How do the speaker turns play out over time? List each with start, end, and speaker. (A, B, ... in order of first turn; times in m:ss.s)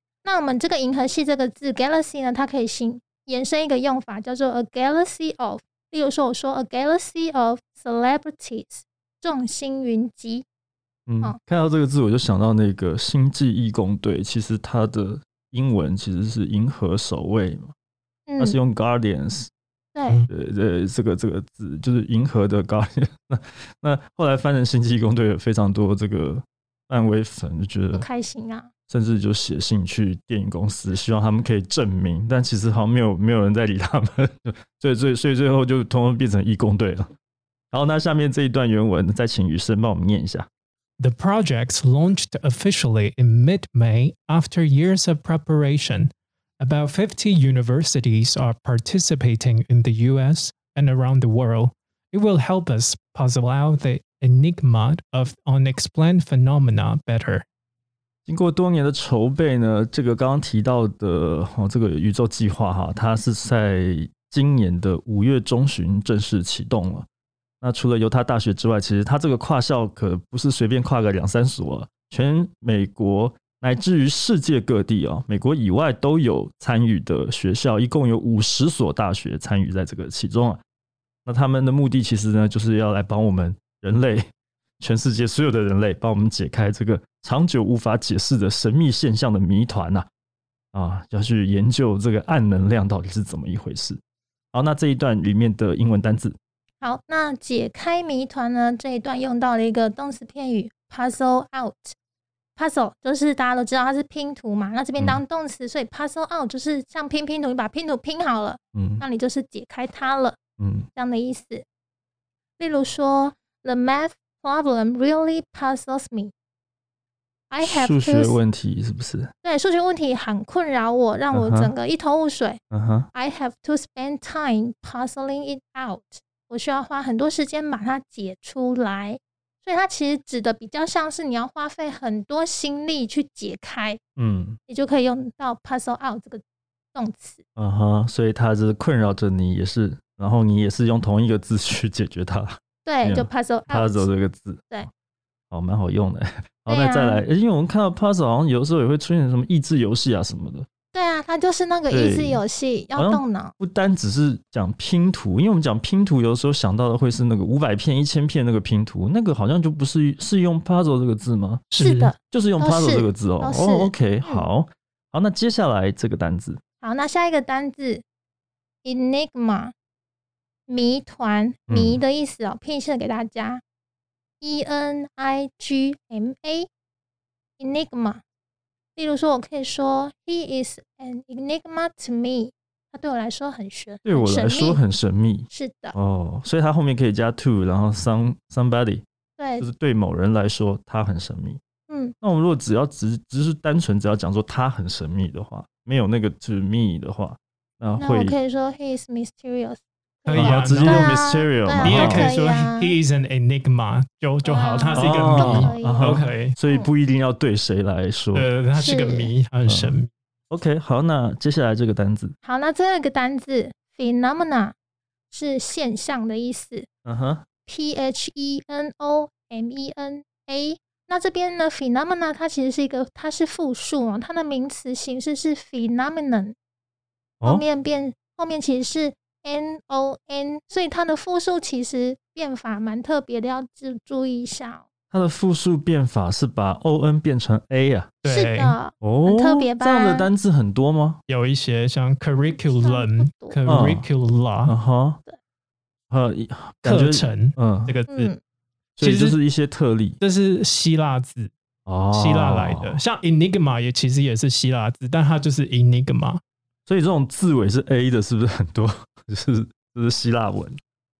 0:00.2-0:10.4 A
0:11.1-0:17.7 B
0:18.3-0:18.6 A
0:18.4-0:19.5 B
0:19.9-0:20.2 A
0:20.3-0:28.0 B
0:27.9-0:28.7 A
0:28.9-0:37.1 B
0:37.7-0:40.5 B
0:41.0-0:57.4 C
0:58.3-1:07.1 B
1:07.6-1:20.6 B
1:21.2-1:24.3 B
1:24.8-1:30.1 B
1:30.7-1:34.0 B
1:34.5-1:36.4 B
1:36.8-1:42.0 A
1:42.6-1:50.4 A
1:48.7-1:49.0 B
1:50.6-1:50.9 B
1:50.9-1:51.6 A
1:52.6-1:56.3 A
1:57.5-1:58.4 A
1:57.6-1:59.3 B
1:59.4-2:02.6 A
2:01.3-2:01.7 B
2:02.7-2:03.1 B
2:03.1-2:14.0 A
2:14.2-2:14.6 B
2:14.7-2:16.4 A
2:16.9-2:17.4 A
2:17.6-2:24.8 B
2:22.8-2:24.1 A
2:25.5-2:30.7 B
2:26.7-2:27.2 A
2:30.9-2:33.5 A
2:31.9-2:32.4 B
2:32.9-2:41.6 B
2:41.7-2:42.1 C
2:41.8-2:44.5 A
2:42.3-2:46.6 B
2:46.8-2:48.0 A
2:48.8-2:49.7 A
2:50.7-2:53.6 A
2:51.7-2:52.0 B
2:54.4-2:56.7 A
2:57.6-2:58.2 A
2:59.0-3:04.8 A
3:04.0-3:09.0 B
3:05.5-3:06.0 A
3:09.4-3:09.6 A
3:09.6-3:11.6 B
3:11.9-3:12.1 A
3:12.2-3:18.4 B
3:18.0-3:23.0 A
3:20.2-3:21.1 C
3:20.3-3:22.3 B
3:21.8-3:26.6 C
3:24.4-3:26.9 A
3:24.9-3:28.5 B
3:28.3-3:30.1 C
3:28.7-3:29.3 A
3:29.7-3:30.0 B
3:30.5-3:32.3 B
3:32.4-3:34.7 A
3:35.3-3:36.9 A
3:37.0-3:37.4 B
3:37.6-3:46.6 A
3:47.4-3:54.8 A
3:55.1-3:58.1 B
3:58.2-3:58.8 C
3:58.3-4:00.3 A
3:59.0-4:01.2 B
4:01.3-4:04.7 C
4:02.5-4:03.6 A
4:03.6-4:04.0 B
4:04.6-4:05.2 B
4:06.1-4:08.0 B
4:06.8-4:08.3 C
4:08.1-4:08.4 A
4:09.0-4:10.2 B
4:09.0-4:09.4 C
4:10.2-4:11.5 C
4:11.8-4:13.0 B
4:12.1-4:16.4 C
4:16.8-4:20.8 B